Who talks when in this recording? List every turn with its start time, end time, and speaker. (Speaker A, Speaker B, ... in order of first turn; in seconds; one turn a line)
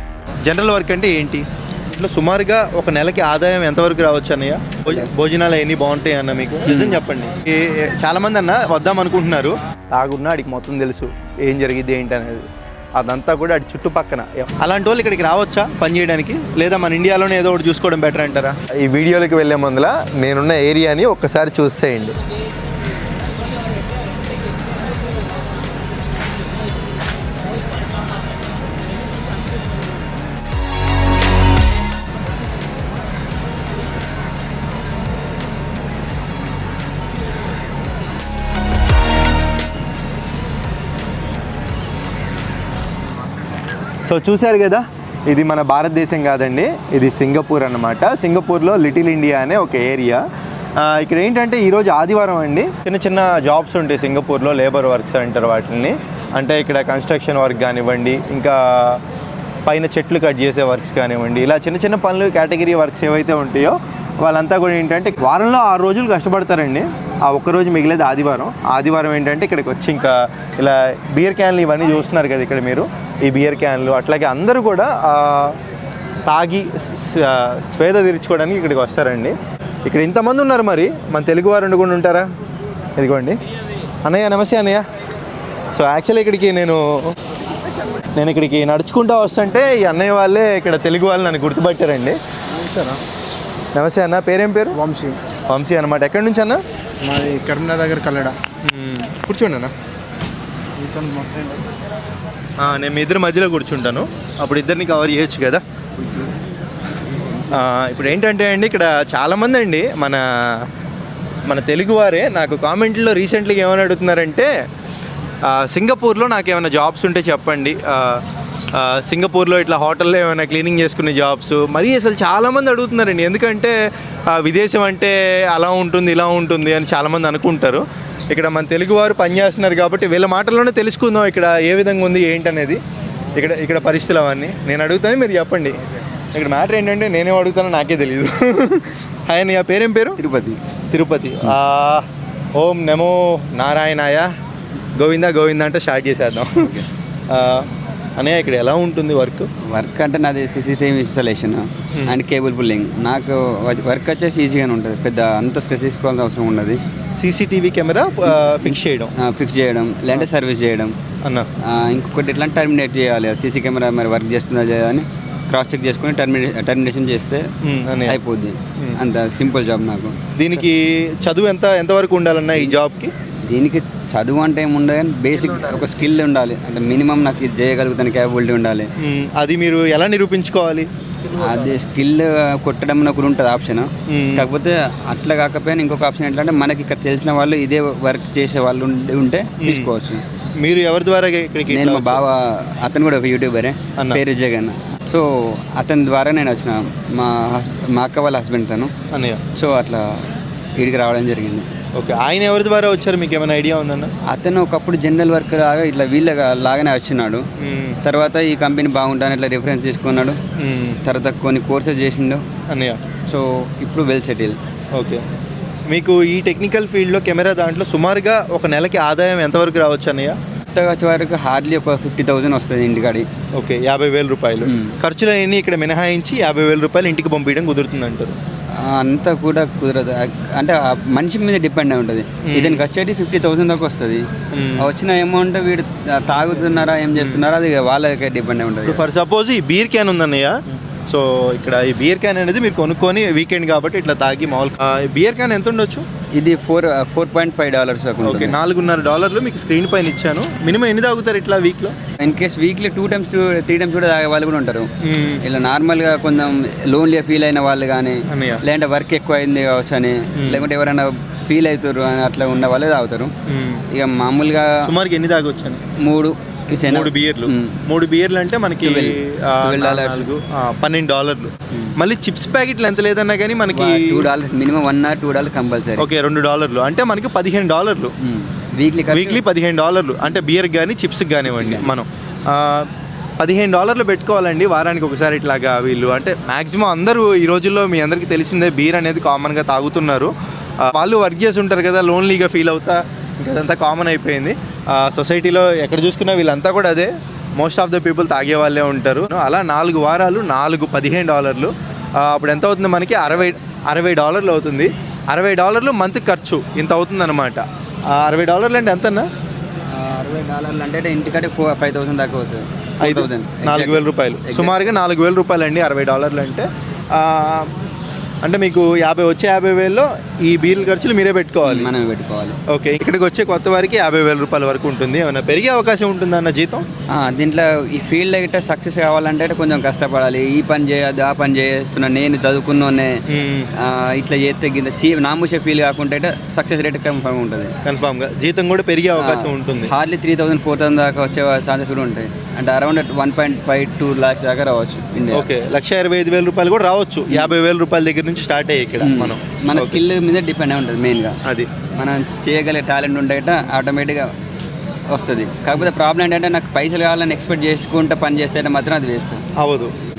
Speaker A: 0.5-22.1
Speaker B: 6.7-7.0
Speaker A: 44.0-50.2
Speaker A: 50.8-59.0
Speaker A: 59.7-75.6
Speaker A: 76.3-79.3
Speaker A: 79.9-82.3
Speaker A: 83.0-83.4
Speaker A: 84.0-84.9
Speaker A: 85.8-87.2
Speaker A: 88.1-92.2
Speaker C: 92.5-93.0
Speaker A: 93.8-94.8
Speaker C: 94.8-95.2
Speaker A: 95.5-96.6
Speaker C: 97.0-98.4
Speaker A: 98.6-99.7
Speaker C: 100.8-101.7
Speaker A: 102.6-105.6
Speaker C: 106.0-106.3
Speaker C: 107.1-107.5
Speaker A: 107.5-110.7
Speaker A: 111.5-114.5
Speaker A: 115.4-123.8
Speaker A: 124.3-132.8
Speaker A: 133.4-135.8
Speaker A: 136.3-140.2
Speaker B: 140.2-140.6
Speaker A: 140.9-144.3
Speaker A: 145.0-146.7
Speaker B: 146.6-146.9
Speaker A: 147.3-149.5
Speaker B: 149.6-156.8
Speaker A: 157.2-159.1
Speaker B: 159.2-160.9
Speaker A: 161.2-161.5
Speaker B: 161.6-167.5
Speaker A: 167.6-168.2
Speaker B: 168.1-170.6
Speaker A: 170.4-173.1
Speaker B: 173.5-178.9
Speaker C: 175.3-175.9
Speaker A: 179.0-180.9
Speaker C: 181.2-181.8
Speaker B: 181.4-190.2
Speaker A: 184.1-184.5
Speaker A: 189.6-189.9
Speaker A: 190.6-192.2
Speaker B: 191.7-198.9
Speaker A: 199.1-199.4
Speaker B: 199.5-200.3
Speaker B: 200.8-201.7
Speaker A: 201.9-204.1
Speaker B: 204.3-207.5
Speaker A: 207.6-208.0
Speaker B: 208.0-210.4
Speaker A: 210.6-211.0
Speaker B: 211.0-212.4
Speaker A: 212.7-213.0
Speaker B: 213.3-214.6
Speaker A: 214.9-215.2
Speaker A: 215.9-220.4
Speaker B: 220.7-223.3
Speaker A: 223.5-228.4
Speaker B: 224.6-224.9
Speaker B: 228.7-239.1
Speaker A: 232.4-232.8
Speaker A: 234.5-234.9
Speaker A: 237.2-237.4
Speaker A: 238.8-246.1
Speaker B: 246.3-248.6
Speaker A: 248.2-251.9
Speaker B: 252.2-254.9
Speaker A: 255.0-255.4
Speaker B: 255.4-263.3
Speaker A: 258.3-258.6
Speaker A: 260.4-260.7
Speaker A: 263.5-263.8
Speaker B: 263.9-264.9
Speaker A: 264.8-265.8
Speaker B: 266.0-267.8
Speaker A: 266.8-274.3
Speaker B: 268.8-270.3
Speaker B: 273.7-276.1
Speaker A: 276.0-278.1
Speaker B: 278.2-279.4
Speaker A: 279.1-309.3
Speaker B: 281.4-281.9
Speaker B: 303.2-303.6
Speaker B: 309.9-314.9
Speaker A: 313.0-317.7
Speaker A: 318.4-321.9
Speaker B: 321.6-322.6
Speaker A: 322.7-326.9
Speaker B: 327.1-333.2
Speaker A: 333.3-333.7
Speaker B: 333.8-337.7
Speaker A: 337.8-339.9
Speaker B: 339.1-345.5
Speaker A: 345.3-350.0
Speaker B: 349.0-351.4
Speaker A: 351.4-351.7
Speaker B: 351.9-354.3
Speaker B: 355.1-359.4
Speaker A: 359.6-359.9